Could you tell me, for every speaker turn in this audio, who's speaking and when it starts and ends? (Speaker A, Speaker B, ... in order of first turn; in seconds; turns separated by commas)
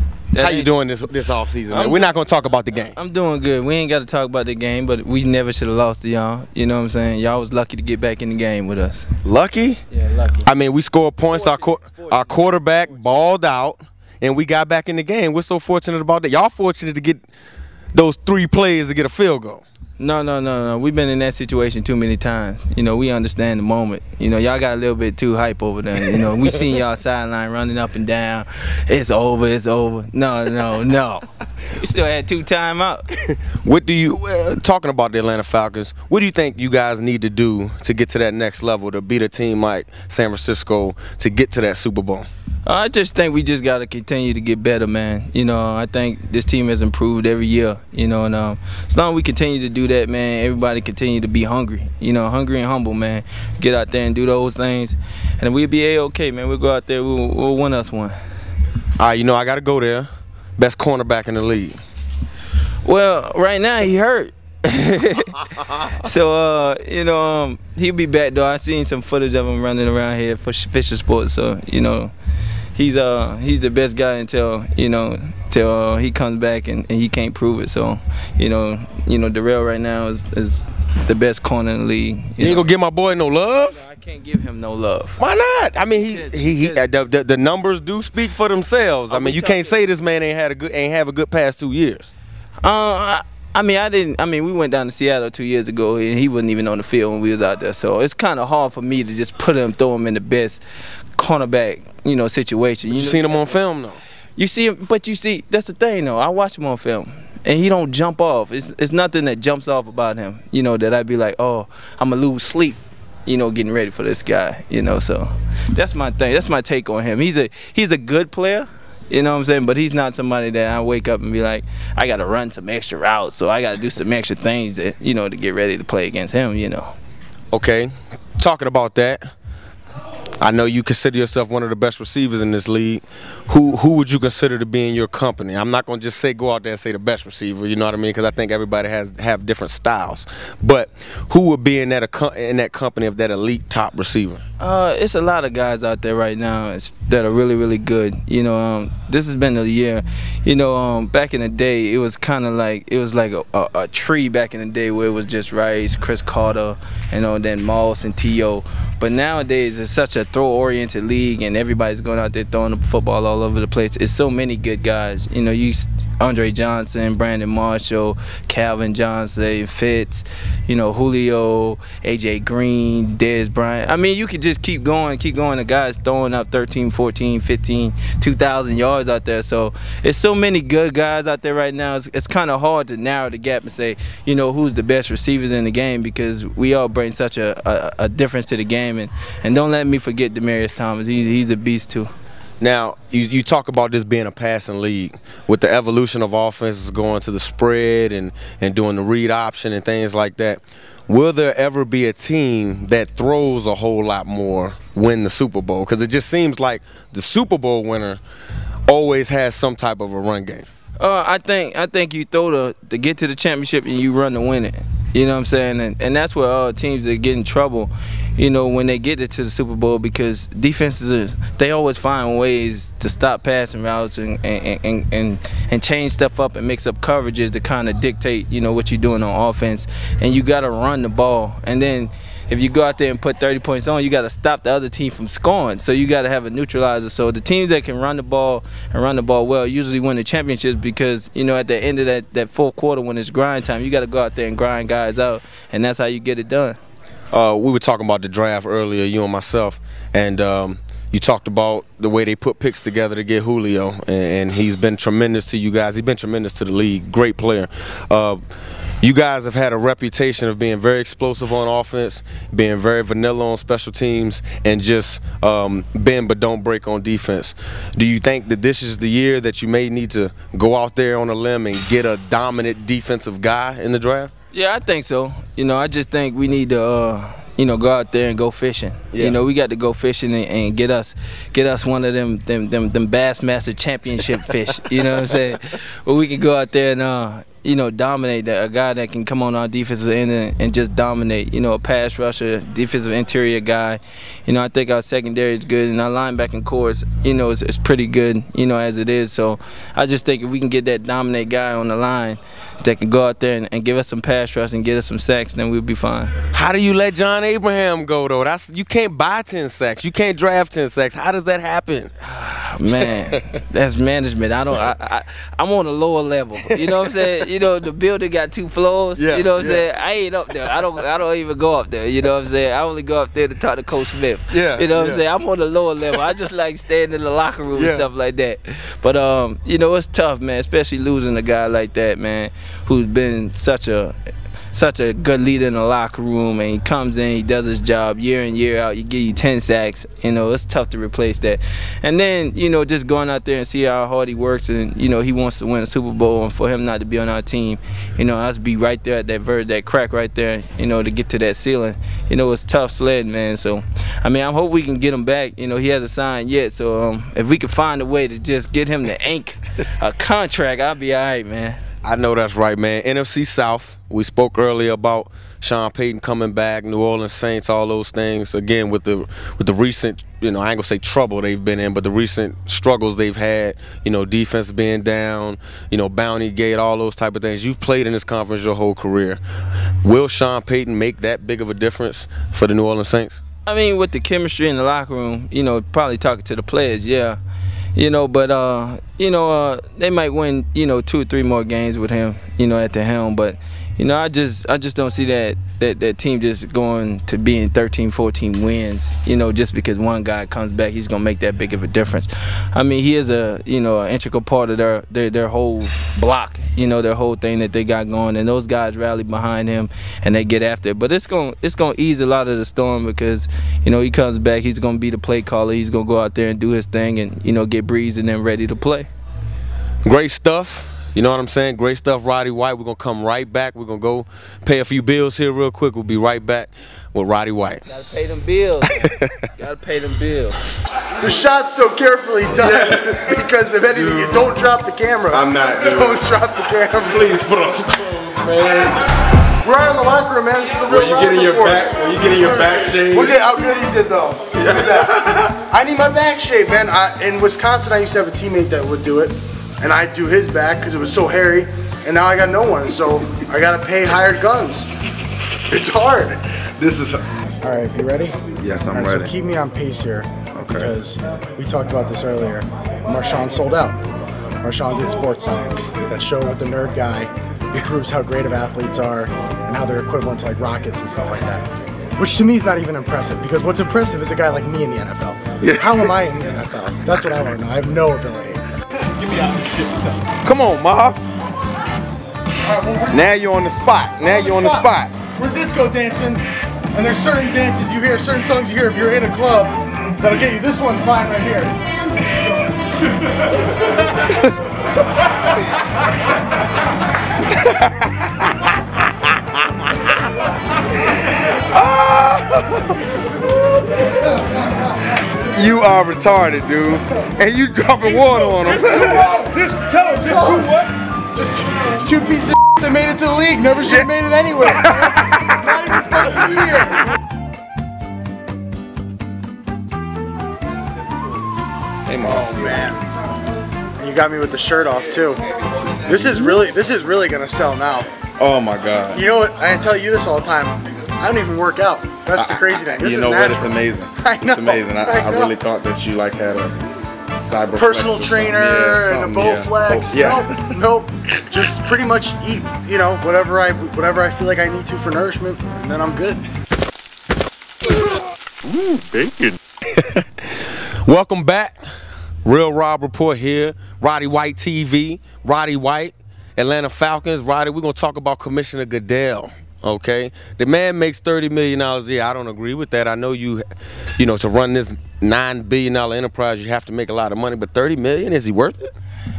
Speaker A: 0.3-0.8, Speaker B: 0.4-3.0, Speaker A: 1.7-2.2, Speaker A: 2.7-9.1, Speaker B: 9.2-9.8, Speaker A: 9.9-10.5, Speaker B: 10.4-17.2, Speaker A: 11.3-13.0, Speaker B: 17.9-19.6, Speaker A: 20.0-33.1, Speaker B: 33.5-42.3, Speaker A: 42.6-58.2, Speaker B: 59.0-61.8, Speaker A: 62.8-72.1, Speaker A: 72.7-82.7, Speaker B: 82.4-83.8, Speaker A: 83.6-85.2, Speaker B: 85.2-92.1, Speaker A: 86.1-86.8, Speaker A: 89.1-89.8, Speaker A: 92.6-100.6, Speaker A: 101.2-103.6, Speaker B: 102.9-104.0, Speaker A: 104.4-126.9, Speaker B: 127.5-129.3, Speaker B: 130.4-144.4, Speaker A: 144.6-192.1, Speaker B: 192.6-208.2, Speaker B: 208.9-210.7, Speaker A: 211.0-246.8, Speaker B: 247.3-258.4, Speaker B: 259.0-274.3, Speaker A: 274.5-306.3, Speaker B: 279.1-279.4, Speaker B: 306.5-312.1, Speaker A: 312.2-334.1, Speaker B: 313.0-313.4, Speaker B: 316.7-317.4, Speaker B: 319.1-319.8, Speaker B: 324.5-325.2, Speaker B: 327.7-328.1, Speaker A: 334.7-361.8, Speaker B: 362.0-379.4, Speaker B: 380.0-383.4, Speaker A: 383.6-387.4, Speaker A: 387.9-419.1, Speaker B: 420.0-427.8, Speaker A: 427.9-429.0, Speaker B: 428.9-429.3, Speaker A: 429.6-430.8, Speaker C: 431.2-437.3, Speaker B: 432.6-433.3, Speaker B: 433.9-434.5, Speaker B: 435.3-436.2, Speaker B: 437.0-439.1, Speaker C: 439.6-455.1, Speaker B: 440.9-443.5, Speaker B: 444.6-445.4, Speaker C: 455.6-456.4, Speaker C: 457.6-464.0, Speaker D: 458.6-459.3, Speaker D: 460.6-460.9, Speaker C: 464.6-471.6, Speaker C: 472.2-478.6, Speaker B: 475.6-476.1, Speaker B: 480.4-481.2, Speaker C: 482.6-483.3, Speaker B: 483.1-485.1, Speaker C: 484.2-491.8, Speaker B: 497.5-498.7, Speaker B: 501.6-503.0, Speaker B: 505.4-509.4, Speaker C: 508.8-517.1, Speaker B: 514.9-515.5, Speaker D: 522.1-522.9, Speaker C: 522.2-523.0, Speaker C: 524.0-525.4, Speaker C: 526.0-528.1, Speaker D: 528.4-529.2, Speaker C: 529.1-535.6, Speaker D: 532.4-536.8, Speaker D: 537.4-540.5, Speaker C: 537.7-546.4, Speaker B: 550.0-551.8, Speaker B: 552.4-563.6, Speaker B: 564.2-568.9